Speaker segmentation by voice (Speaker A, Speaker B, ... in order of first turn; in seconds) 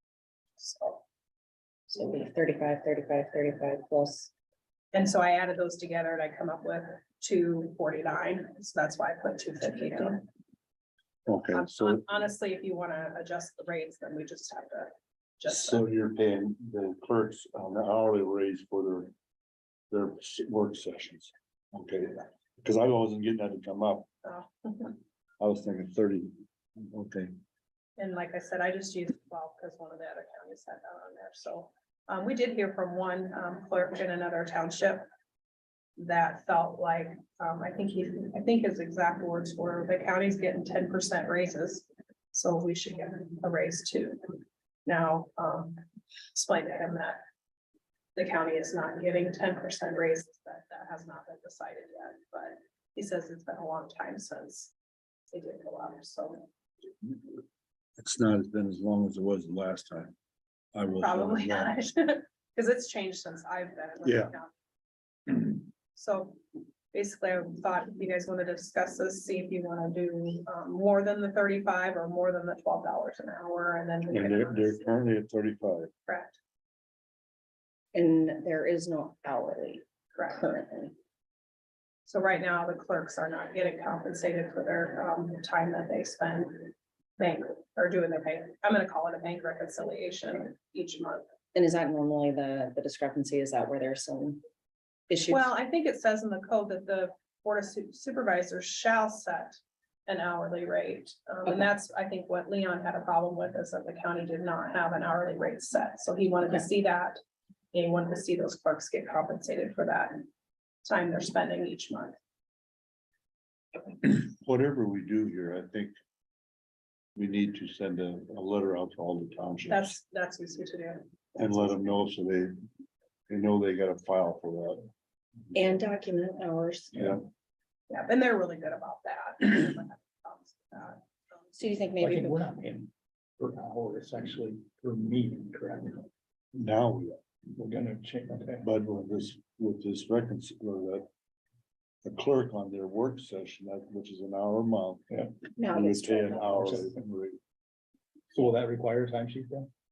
Speaker A: 0.6-1.0, 4.9-10.3, 11.5-15.8, 24.2-25.0, 28.0-35.0, 36.0-47.2, 48.2-54.7, 55.3-56.5, 61.0-64.5, 65.3-66.4, 66.9-74.9, 76.1-76.4, 80.2-80.4, 82.1-91.3, 95.3-107.2, 107.7-110.3, 110.8-112.2, 119.7-121.0, 127.9-131.4
Speaker B: 1.9-4.3, 77.9-81.0, 91.5-94.4, 95.1-95.5, 125.5-127.1, 131.6-132.5, 145.6-146.6
Speaker C: 11.3-12.0, 15.5-19.1, 19.9-24.1, 25.4-27.3, 58.0-60.1, 60.8-61.8, 64.0-64.4, 74.1-75.9, 114.0-115.9, 117.2-119.9, 121.4-122.5, 123.3-124.9, 136.6-137.2, 138.6-141.1, 142.0-145.0, 145.7-147.4
Speaker D: 126.9-127.2, 132.0-136.1, 137.5-138.7, 145.1-145.4, 146.6-146.9, 148.3-149.7